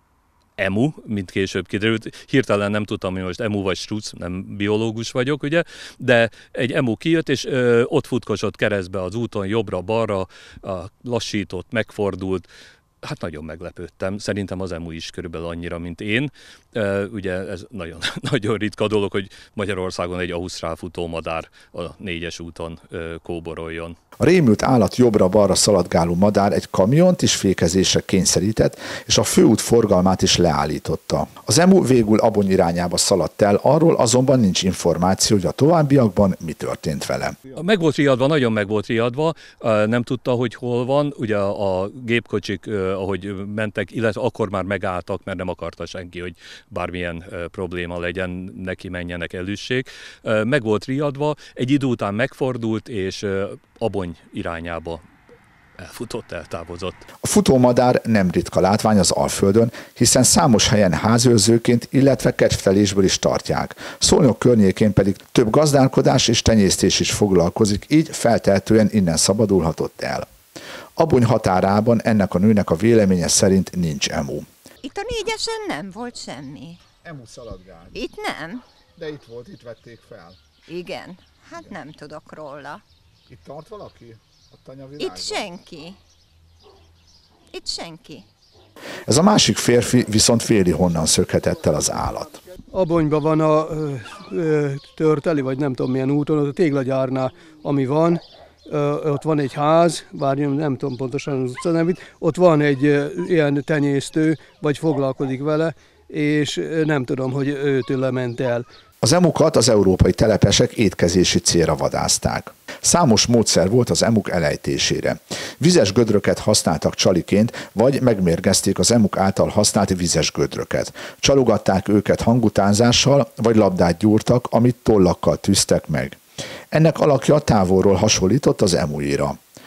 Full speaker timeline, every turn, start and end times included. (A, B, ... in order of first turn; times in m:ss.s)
0:00.6-0:12.5 A
0:13.0-0:24.0 A
0:24.2-0:37.4 B
0:37.6-0:55.0 A
0:55.8-0:57.0 A
0:57.2-1:10.3 B
1:11.0-1:14.5 B
1:14.8-1:16.8 C
1:17.0-1:18.0 B
1:17.9-1:18.6 C
1:19.0-1:20.4 B
1:20.7-1:22.8 C
1:23.3-1:25.5 B
1:25.0-1:26.0 C
1:27.5-1:28.3 C
1:29.0-1:32.4 B
1:32.7-1:48.6 D
1:49.0-2:06.2 B
2:06.7-2:09.4 B